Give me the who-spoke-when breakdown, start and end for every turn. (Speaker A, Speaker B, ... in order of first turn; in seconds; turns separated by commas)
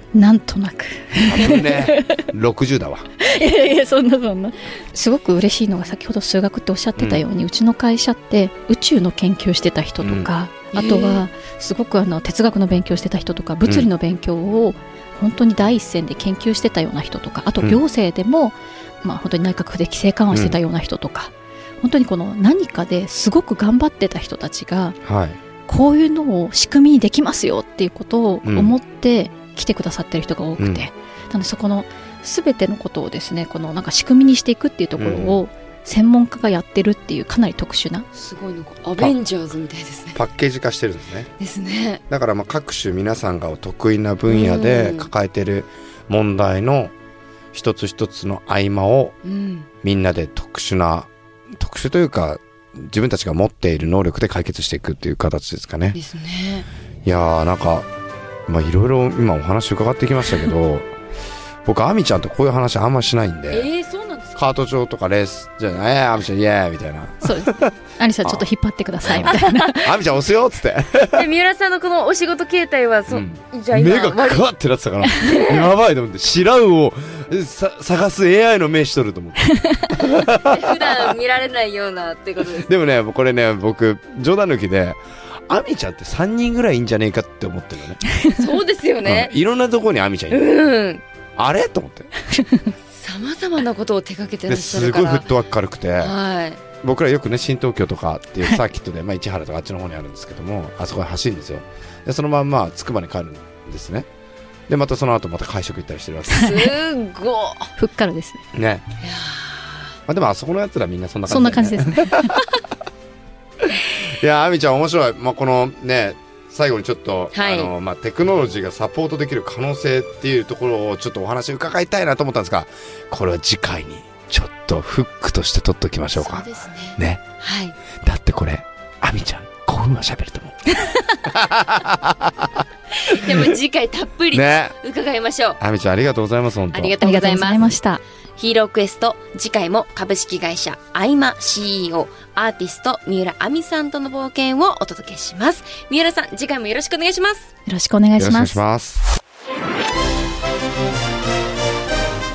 Speaker A: 0.1-2.3, Speaker B: 1.2-3.1, Speaker A: 3.2-25.0, Speaker B: 7.0-7.2, Speaker B: 10.0-10.3, Speaker C: 10.7-11.2, Speaker B: 20.3-20.6, Speaker B: 25.0-25.4, Speaker A: 25.7-38.1, Speaker B: 28.4-28.7, Speaker B: 30.6-30.9, Speaker B: 35.0-35.4, Speaker C: 38.1-40.2, Speaker B: 40.1-41.3, Speaker C: 41.4-42.0, Speaker B: 42.1-46.9, Speaker C: 44.3-45.1, Speaker B: 47.5-49.1, Speaker C: 49.2-49.7, Speaker B: 49.8-56.0, Speaker C: 55.9-56.7, Speaker B: 57.0-57.9, Speaker B: 58.5-60.9, Speaker B: 61.6-63.7, Speaker C: 63.5-64.4, Speaker B: 64.3-67.7, Speaker A: 67.2-69.9, Speaker B: 69.0-71.3, Speaker C: 69.2-69.8, Speaker C: 71.0-74.5, Speaker B: 73.1-81.2, Speaker C: 75.2-75.7, Speaker A: 79.4-79.9, Speaker C: 80.3-82.7, Speaker B: 82.6-88.0, Speaker A: 88.1-88.4, Speaker C: 88.3-89.3, Speaker B: 89.0-90.5, Speaker C: 90.3-91.0, Speaker B: 91.3-92.1, Speaker A: 92.3-92.7, Speaker C: 93.0-95.3, Speaker B: 94.5-96.1, Speaker C: 96.0-96.6, Speaker B: 96.8-104.1, Speaker B: 104.7-106.6, Speaker C: 106.3-107.7, Speaker A: 106.3-106.7, Speaker A: 107.8-108.4, Speaker B: 108.5-108.8, Speaker C: 109.0-109.9, Speaker B: 110.1-112.5, Speaker A: 111.3-112.3, Speaker B: 113.6-127.2, Speaker C: 117.3-117.7, Speaker C: 126.2-127.7, Speaker B: 128.0-130.6, Speaker B: 131.2-132.6, Speaker C: 133.0-135.6, Speaker B: 134.3-134.7, Speaker B: 135.6-137.0, Speaker C: 136.7-137.7, Speaker A: 137.0-138.0, Speaker C: 138.4-147.5, Speaker A: 147.7-148.6, Speaker B: 148.2-149.0